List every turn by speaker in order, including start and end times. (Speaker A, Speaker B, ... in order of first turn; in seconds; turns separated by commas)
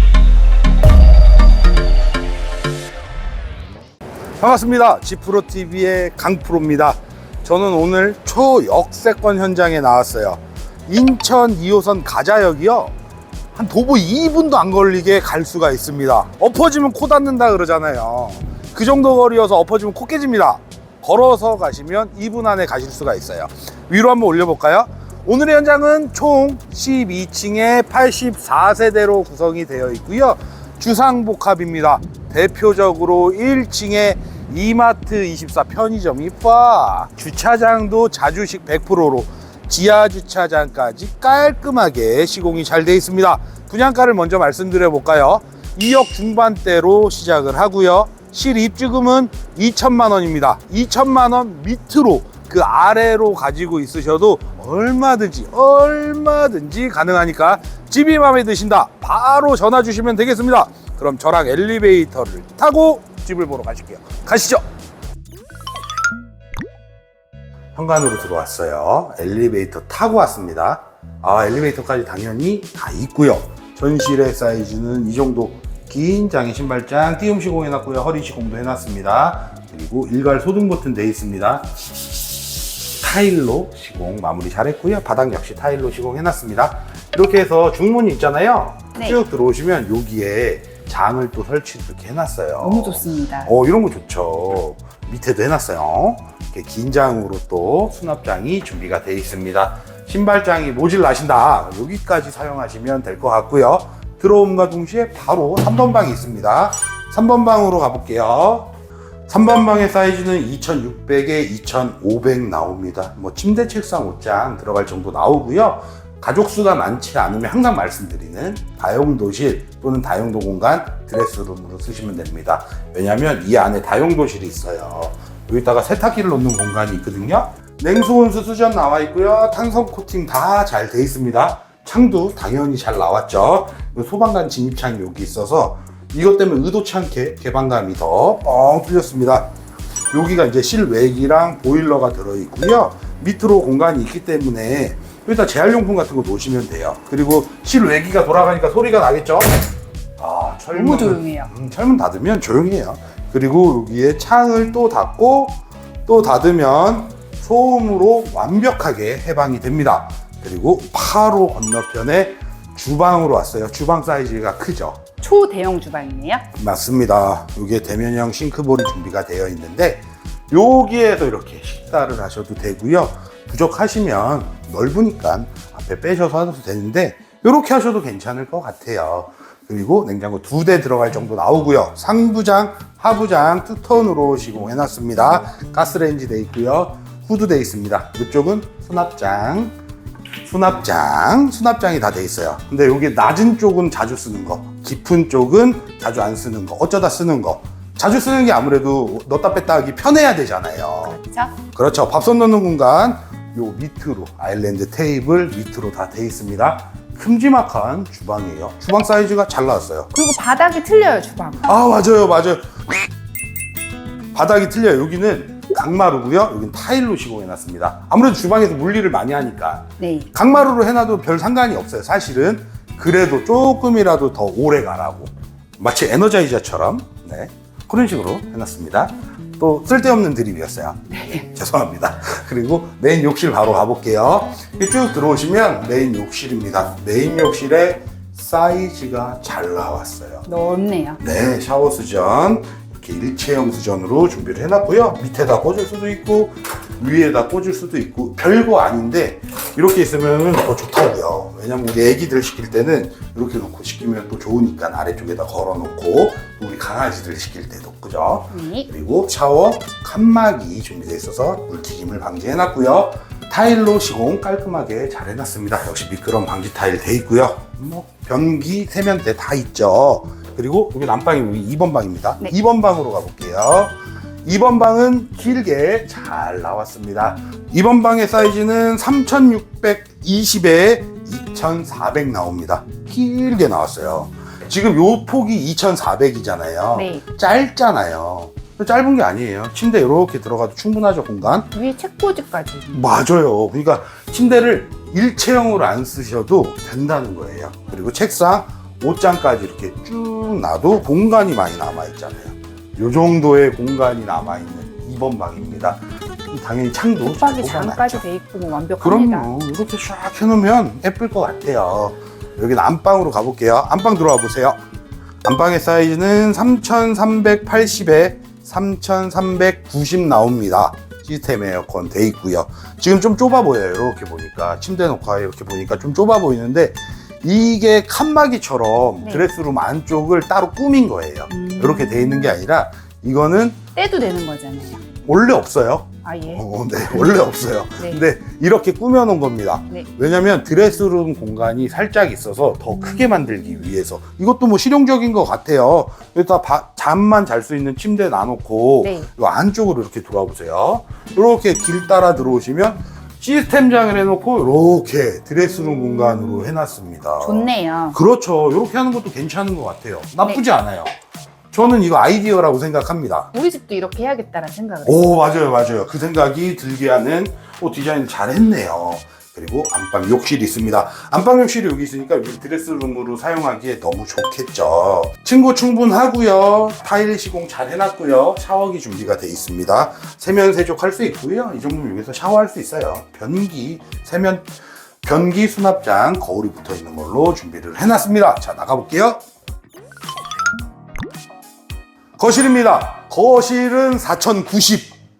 Speaker A: 4.4-12.9, Speaker A: 13.5-64.6, Speaker A: 67.7-81.7, Speaker A: 83.0-108.7, Speaker B: 92.6-93.5, Speaker A: 109.3-139.5, Speaker A: 140.1-149.7, Speaker A: 150.2-165.0, Speaker B: 150.7-151.5, Speaker B: 165.2-166.5, Speaker A: 166.5-189.8, Speaker A: 190.4-201.2, Speaker B: 201.0-201.6, Speaker A: 201.7-210.1, Speaker B: 210.1-211.8, Speaker A: 211.6-212.9, Speaker A: 214.3-240.5, Speaker B: 220.0-220.3, Speaker B: 231.1-231.4, Speaker B: 240.5-241.2, Speaker A: 241.2-291.7, Speaker B: 258.5-258.9, Speaker B: 286.9-287.2, Speaker B: 291.7-293.0, Speaker A: 292.9-308.2, Speaker B: 307.2-309.5, Speaker A: 309.0-314.8, Speaker A: 315.4-333.8, Speaker B: 331.5-332.5, Speaker B: 333.9-335.0, Speaker A: 335.2-361.1, Speaker B: 336.2-337.3, Speaker B: 349.0-349.3, Speaker B: 357.4-358.2, Speaker A: 361.7-363.5, Speaker B: 363.5-365.4, Speaker A: 365.1-384.7, Speaker A: 385.2-389.4, Speaker A: 392.4-395.1